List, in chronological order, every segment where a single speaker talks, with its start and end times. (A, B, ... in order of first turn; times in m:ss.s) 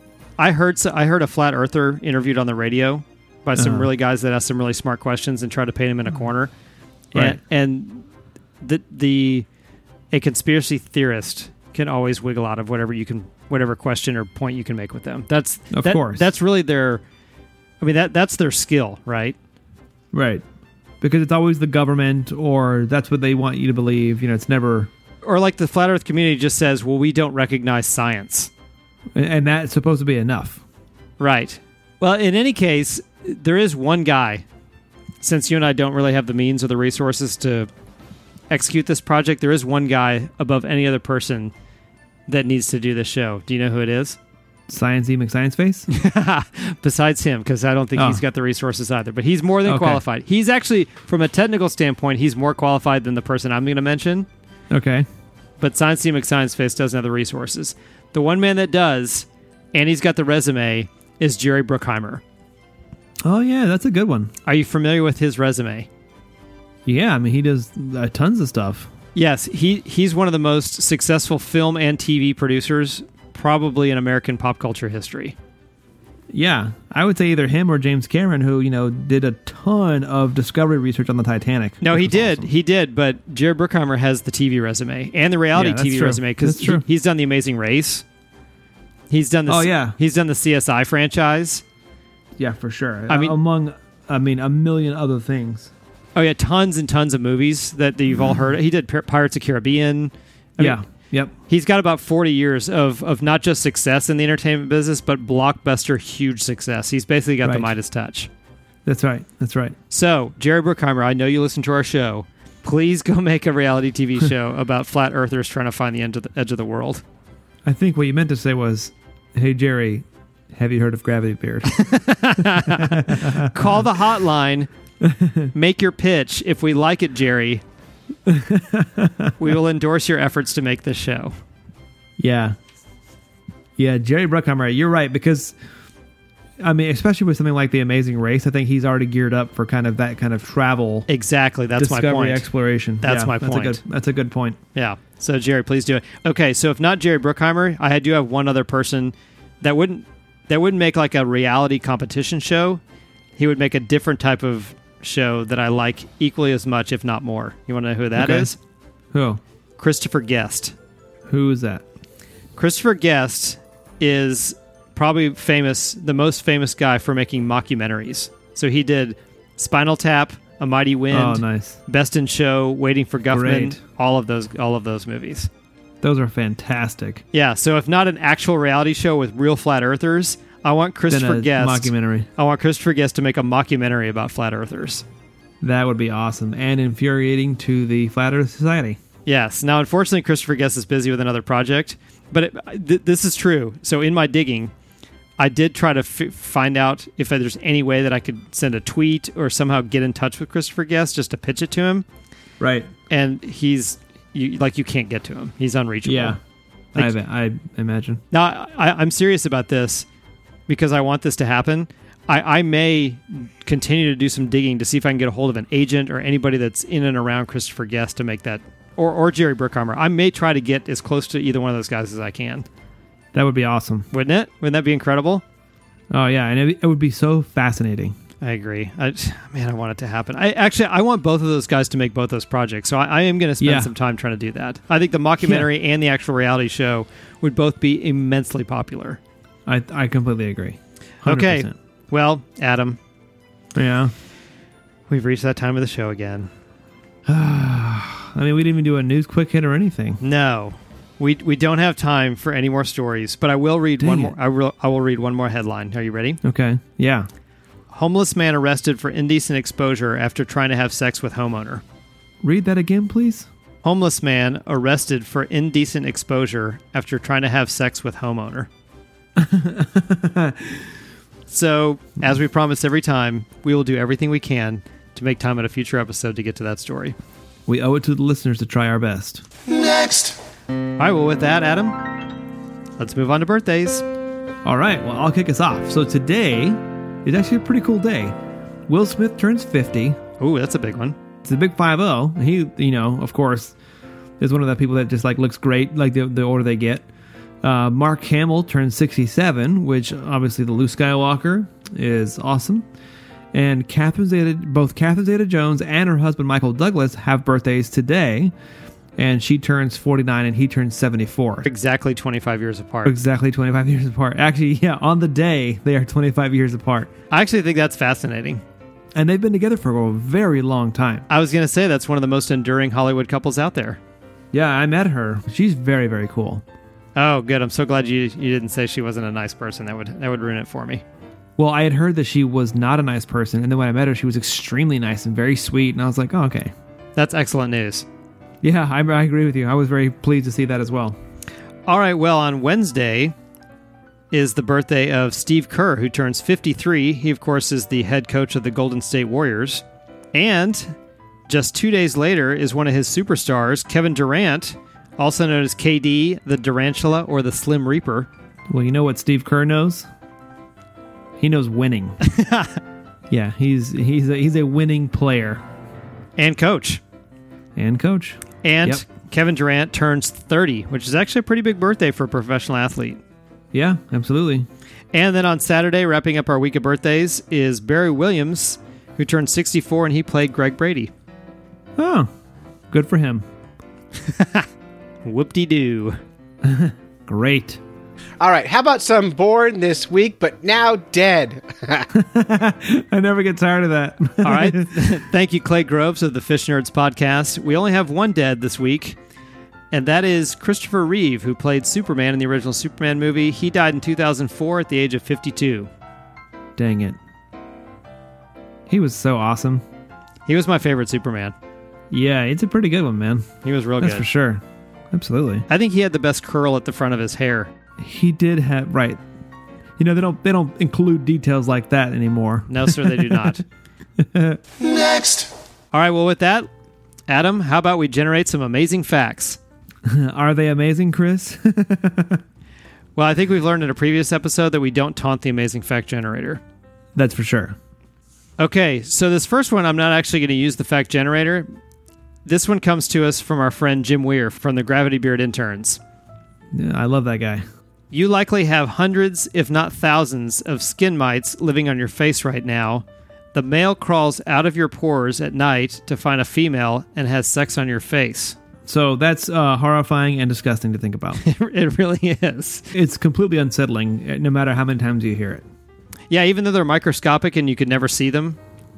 0:00.4-0:06.5 A
0:03.6-0:03.9 B
0:07.1-0:08.1 A
0:08.6-0:09.5 A
0:10.1-0:17.0 A
0:15.7-0:16.3 B
0:17.8-0:19.4 A
0:20.1-0:20.4 B
0:21.0-0:24.9 B
0:25.2-0:28.5 A
0:29.2-0:30.6 B
0:31.2-0:34.4 A
0:35.2-0:37.7 A
0:38.5-0:41.5 A
0:42.3-0:44.2 A
0:44.7-0:45.9 B
0:45.9-0:54.3 A
0:48.0-0:48.2 B
0:49.7-0:50.0 B
0:54.7-0:55.1 B
0:55.6-1:02.2 A
1:03.2-1:04.3 B
1:04.4-1:05.9 A
1:06.9-1:08.9 B
1:09.2-1:15.4 A
1:16.3-1:22.5 B
1:21.8-1:28.0 A
1:25.5-1:26.8 B
1:29.1-1:31.6 A
1:29.5-1:30.0 B
1:32.4-1:35.7 B
1:33.1-1:33.4 A
1:36.2-1:40.8 A
1:40.6-1:41.3 B
1:41.5-1:48.3 A
1:47.4-1:47.7 B
1:48.9-1:49.8 B
1:49.9-1:57.0 A
1:57.6-2:01.9 B
2:01.7-2:04.7 A
2:02.4-2:03.7 B
2:05.0-2:05.5 B
2:05.5-2:07.6 A
2:08.3-2:09.4 B
2:09.4-2:11.4 A
2:12.2-2:12.6 B
2:13.8-2:15.6 B
2:16.6-2:21.1 B
2:21.1-2:22.5 A
2:21.8-2:24.6 B
2:23.0-2:23.8 A
2:24.8-2:32.8 A
2:33.4-2:38.6 A
2:38.2-2:38.5 B
2:39.1-2:39.4 B
2:39.8-2:40.8 A
2:41.3-2:41.8 B
2:42.6-2:55.5 A
2:51.1-2:51.8 B
2:53.3-2:53.8 B
2:56.0-2:57.2 B
2:57.3-3:05.1 A
3:01.1-3:02.3 B
3:05.6-3:09.0 B
3:09.3-3:14.7 A
3:15.4-3:22.0 A
3:22.6-3:22.9 B
3:23.1-3:26.4 A
3:26.0-3:26.4 B
3:27.0-3:28.2 B
3:28.3-3:30.1 A
3:30.7-3:42.7 A
3:43.3-3:44.1 B
3:44.1-3:45.4 A
3:46.1-3:48.2 B
3:48.4-3:59.2 A
3:53.6-3:53.9 B
3:55.4-3:55.7 B
3:59.7-4:01.7 B
4:01.2-4:03.0 A
4:03.8-4:04.1 B
4:05.1-4:06.5 A
4:07.3-4:10.2 B
4:10.2-4:16.4 A
4:14.0-4:14.3 B
4:16.4-4:17.3 B
4:17.9-4:21.8 A
4:22.4-4:23.5 B
4:23.8-4:28.7 A
4:29.4-4:30.8 B
4:31.5-4:37.2 A
4:37.7-4:39.4 B
4:39.7-4:40.4 A
4:41.0-4:42.0 A
4:43.0-4:44.0 A
4:44.6-4:48.4 B
4:48.9-4:50.2 B
4:50.4-4:51.2 A
4:51.4-4:53.8 B
4:54.4-4:57.1 B
4:57.6-5:02.9 B
5:03.5-5:08.5 B
5:09.2-5:11.7 B
5:11.6-5:13.2 A
5:13.0-5:17.1 B
5:17.3-5:18.6 A
5:19.2-5:21.3 B
5:21.3-5:24.0 A
5:24.5-5:26.6 B
5:27.2-5:31.0 A
5:31.6-5:36.7 B
5:37.2-5:38.1 A
5:38.6-5:41.2 B
5:41.9-5:43.4 A
5:44.3-5:51.0 A
5:51.5-5:58.3 A
5:58.7-6:00.1 B
6:01.4-6:02.2 B
6:02.2-6:02.8 A
6:03.3-6:05.6 B
6:06.4-6:07.0 A
6:07.8-6:09.1 B
6:08.6-6:13.2 A
6:13.7-6:14.7 B
6:15.1-6:21.1 A
6:22.0-6:22.3 B
6:22.9-6:23.5 B
6:24.2-6:24.7 A
6:25.2-6:26.2 A
6:26.6-6:27.8 B
6:28.4-6:32.1 C
6:32.1-6:35.2 B
6:34.4-6:39.2 A
6:39.9-6:45.9 A
6:46.8-6:47.2 B
6:48.9-6:49.8 B
6:50.5-6:51.6 A
6:52.1-6:53.5 B
6:53.6-6:54.3 A
6:54.0-6:55.7 B
6:55.7-6:57.7 A
6:58.0-6:59.2 B
7:00.0-7:03.6 B
7:02.7-7:03.6 A
7:04.2-7:04.6 B
7:05.0-7:06.7 A
7:07.3-7:09.6 A
7:10.0-7:12.4 B
7:13.2-7:16.6 A
7:17.2-7:17.8 B
7:18.6-7:21.7 A
7:22.4-7:26.0 A
7:26.7-7:27.6 B
7:28.1-7:38.6 A
7:38.9-7:41.4 B
7:41.4-7:42.9 A
7:42.9-7:45.6 B
7:46.3-7:48.6 A